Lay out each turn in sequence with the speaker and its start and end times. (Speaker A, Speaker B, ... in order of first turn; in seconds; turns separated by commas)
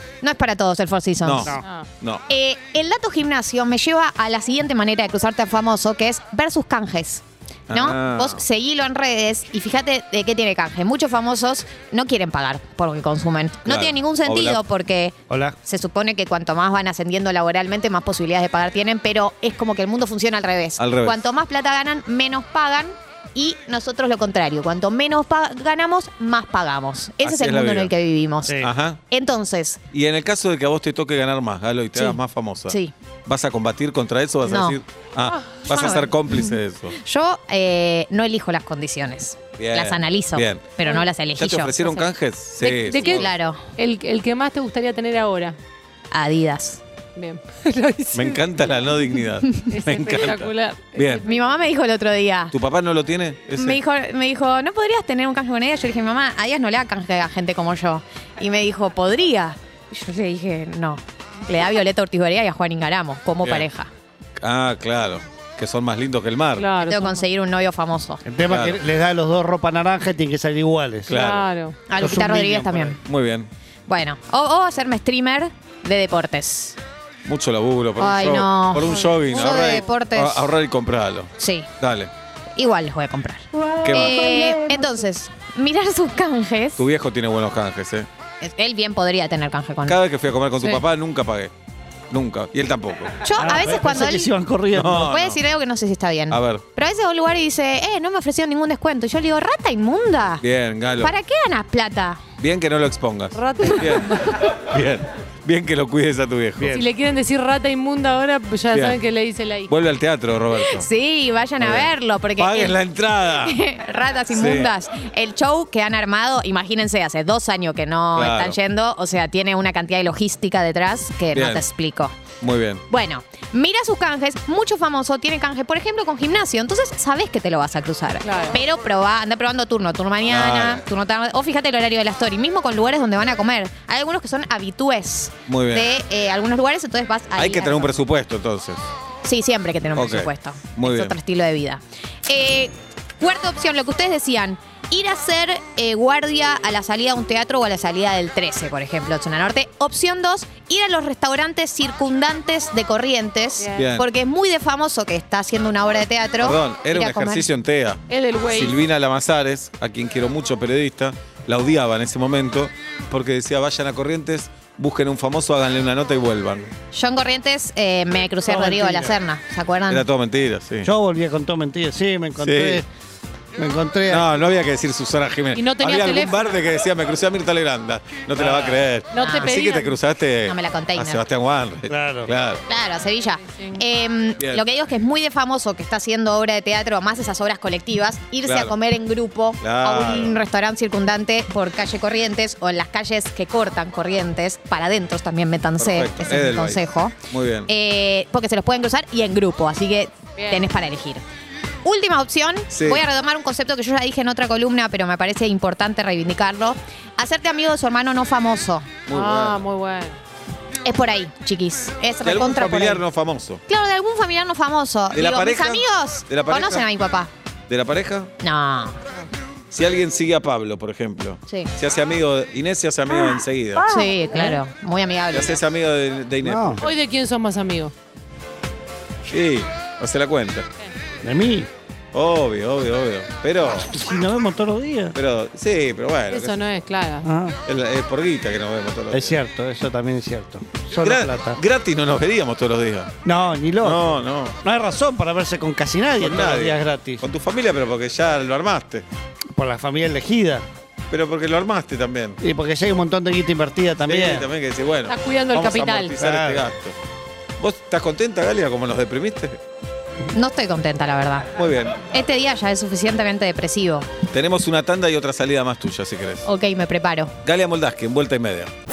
Speaker A: 0.2-1.5, Speaker B: 1.2-2.2, Speaker C: 1.5-1.9, Speaker A: 2.3-29.8, Speaker B: 7.7-8.4, Speaker B: 13.6-14.6, Speaker D: 15.3-15.6, Speaker B: 20.8-21.2, Speaker B: 27.2-27.9, Speaker B: 28.6-29.0, Speaker B: 29.9-37.0, Speaker A: 31.9-32.9, Speaker A: 34.4-34.8, Speaker C: 35.2-35.5, Speaker A: 35.7-41.8, Speaker B: 39.5-43.4, Speaker C: 41.8-45.6, Speaker A: 43.2-43.6, Speaker A: 46.1-46.8, Speaker C: 47.1-48.4, Speaker B: 48.1-51.3, Speaker A: 49.4-49.8, Speaker C: 49.6-51.4, Speaker A: 51.3-52.5, Speaker B: 52.5-53.8, Speaker A: 53.5-63.9, Speaker B: 64.4-66.7, Speaker C: 66.5-67.2, Speaker A: 66.8-68.2, Speaker D: 68.2-71.2, Speaker B: 68.5-68.8, Speaker B: 71.1-71.5, Speaker C: 71.1-71.8, Speaker A: 71.9-73.0, Speaker D: 72.0-73.0, Speaker B: 73.0-73.5, Speaker A: 73.9-76.8, Speaker B: 77.2-82.1, Speaker A: 78.0-80.5, Speaker C: 78.9-79.4, Speaker A: 81.4-81.7, Speaker A: 82.5-86.8, Speaker B: 83.8-84.2, Speaker B: 86.8-88.1, Speaker A: 88.4-90.0, Speaker B: 89.8-91.5, Speaker A: 90.6-90.8, Speaker B: 92.1-93.2, Speaker A: 93.2-94.3, Speaker D: 93.3-95.1, Speaker B: 94.7-95.4, Speaker A: 95.0-100.4, Speaker B: 96.3-96.7, Speaker B: 100.4-101.1, Speaker A: 101.0-102.2, Speaker B: 102.4-106.8, Speaker C: 103.3-104.2, Speaker D: 106.6-106.8, Speaker C: 106.7-109.7, Speaker B: 108.7-109.0, Speaker B: 109.7-110.9, Speaker A: 110.5-122.3, Speaker B: 111.6-113.6, Speaker B: 114.3-114.7, Speaker B: 118.1-118.6, Speaker B: 121.3-121.7, Speaker B: 122.4-122.8, Speaker A: 122.9-138.0, Speaker C: 128.2-128.6, Speaker B: 130.2-130.8, Speaker B: 135.5-135.9, Speaker B: 137.3-138.8, Speaker A: 139.2-157.5, Speaker B: 139.9-141.2, Speaker C: 153.6-153.9, Speaker B: 153.7-154.1, Speaker B: 156.4-166.7, Speaker C: 158.1-158.8, Speaker A: 166.9-170.1, Speaker D: 168.4-169.2, Speaker B: 169.9-170.9, Speaker D: 170.8-172.9, Speaker B: 172.4-172.8, Speaker D: 173.6-174.3, Speaker B: 174.1-182.6, Speaker C: 175.5-176.5, Speaker D: 178.3-178.8, Speaker C: 179.1-179.9, Speaker A: 179.2-179.7, Speaker A: 180.4-181.3, Speaker D: 181.9-182.3, Speaker A: 182.7-201.2, Speaker C: 183.4-183.8, Speaker B: 184.4-184.7, Speaker B: 188.4-188.8, Speaker B: 189.6-190.5, Speaker B: 195.8-197.7, Speaker C: 200.4-200.6, Speaker A: 201.8-209.0, Speaker B: 202.7-203.0, Speaker B: 209.1-209.6, Speaker C: 209.1-210.2, Speaker A: 210.8-213.0, Speaker B: 212.2-213.6, Speaker A: 213.7-217.3, Speaker B: 215.1-216.9, Speaker B: 217.7-218.3, Speaker A: 218.4-219.0, Speaker B: 219.7-223.9, Speaker A: 221.4-221.7, Speaker A: 223.9-225.6, Speaker B: 225.3-226.9, Speaker D: 226.4-226.8, Speaker C: 226.8-227.9, Speaker B: 229.3-230.7, Speaker D: 231.2-231.7, Speaker B: 232.1-233.9, Speaker D: 233.8-235.2, Speaker B: 235.1-236.6, Speaker C: 236.3-237.3, Speaker D: 237.2-237.6, Speaker B: 237.7-239.4, Speaker D: 239.1-241.6, Speaker B: 241.0-243.1, Speaker D: 243.2-244.1, Speaker B: 243.8-244.5, Speaker D: 244.6-247.2, Speaker B: 246.2-249.1, Speaker D: 249.5-250.7, Speaker B: 251.1-252.4, Speaker D: 252.4-254.5, Speaker B: 254.1-256.9, Speaker C: 255.1-256.1, Speaker D: 256.1-256.7, Speaker B: 257.6-259.6, Speaker A: 260.3-261.5, Speaker B: 261.6-262.0, Speaker A: 262.1-264.1, Speaker B: 264.3-266.5, Speaker A: 266.4-267.3, Speaker B: 267.4-268.7